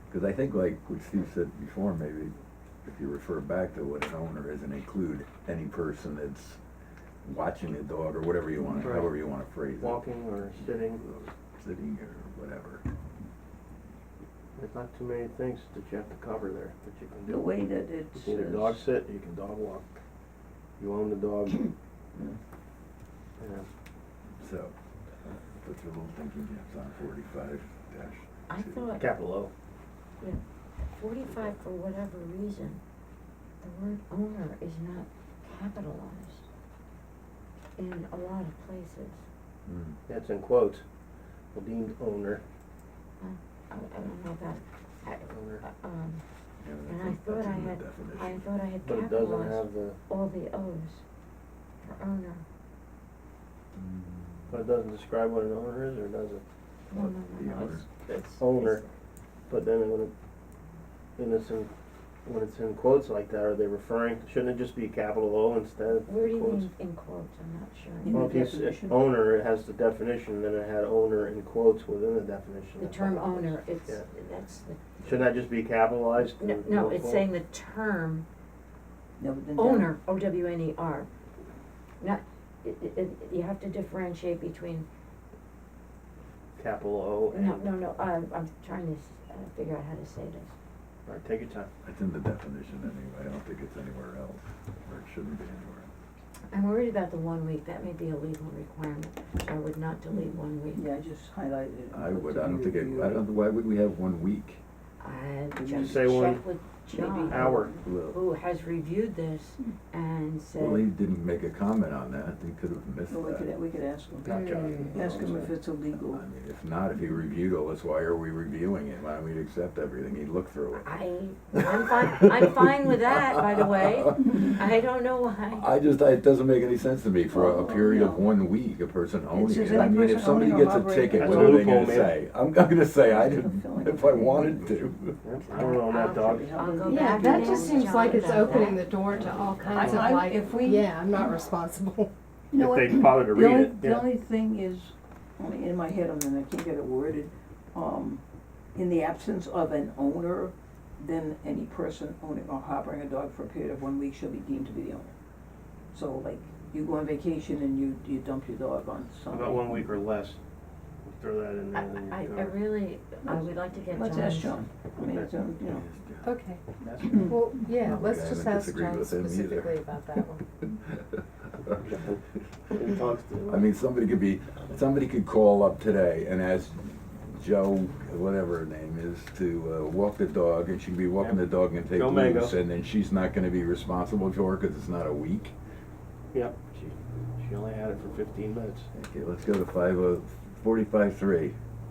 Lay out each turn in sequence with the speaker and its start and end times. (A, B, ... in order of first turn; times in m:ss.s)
0:00.1-0:06.6 A
0:07.2-0:10.0 A
0:08.8-0:09.1 B
0:09.8-0:11.1 B
0:10.5-0:12.8 A
0:14.6-0:17.5 B
0:17.3-0:18.8 C
0:18.1-0:20.0 B
0:20.8-0:21.7 B
0:23.4-0:23.7 B
0:24.4-0:28.9 A
0:28.5-0:29.1 D
0:29.0-0:29.5 B
0:30.2-0:32.8 D
0:33.6-0:36.4 D
0:37.8-0:39.2 D
0:39.7-0:40.0 A
0:40.1-0:40.9 B
0:41.5-0:42.4 B
0:43.2-0:46.2 D
0:45.3-0:45.7 B
0:46.6-0:48.4 A
0:46.8-0:51.0 D
0:48.9-0:50.0 B
0:51.8-0:52.4 D
0:53.8-0:54.6 A
0:54.5-0:56.4 B
0:56.9-0:58.8 D
0:56.9-0:57.8 A
0:58.0-0:58.8 B
0:59.5-1:00.1 B
1:01.2-1:01.7 B
1:02.2-1:06.7 B
1:06.1-1:08.3 D
1:08.0-1:09.0 C
1:08.1-1:14.1 B
1:12.8-1:14.8 D
1:15.0-1:17.3 B
1:16.4-1:18.3 D
1:19.2-1:20.0 C
1:19.6-1:21.1 D
1:22.0-1:24.9 D
1:26.6-1:27.7 B
1:27.3-1:30.5 D
1:31.1-1:31.7 B
1:31.8-1:35.9 A
1:36.5-1:40.8 D
1:40.1-1:43.2 C
1:41.9-1:44.6 A
1:45.0-1:50.8 D
1:45.6-1:46.1 C
1:45.7-1:46.4 B
1:46.9-1:47.8 C
1:47.2-1:47.8 B
1:47.8-1:48.2 A
1:50.6-1:53.5 A
1:53.1-1:54.3 C
1:54.2-1:55.5 B
1:54.3-1:55.0 D
1:54.9-1:56.2 C
1:55.3-2:00.9 A
2:00.8-2:05.8 D
2:03.8-2:04.4 A
2:05.5-2:15.2 A
2:07.2-2:08.3 C
2:09.3-2:11.9 C
2:11.2-2:12.1 B
2:13.2-2:14.8 C
2:15.2-2:16.6 B
2:15.5-2:19.9 D
2:15.8-2:18.4 C
2:16.8-2:22.6 E
2:19.2-2:20.1 B
2:19.7-2:20.9 C
2:22.5-2:24.1 B
2:22.6-2:28.2 C
2:28.7-2:35.1 C
2:35.9-2:39.8 C
2:39.3-2:40.4 B
2:41.0-2:42.6 B
2:41.7-2:44.6 D
2:43.3-2:45.8 C
2:45.7-2:46.3 A
2:46.2-2:46.6 E
2:46.8-2:47.3 B
2:47.1-2:47.3 C
2:47.2-2:50.4 E
2:47.7-2:50.0 A
2:50.7-2:51.8 A
2:51.8-2:53.7 B
2:53.5-3:05.5 A
3:01.2-3:02.6 B
3:06.3-3:08.9 B
3:08.9-3:11.6 A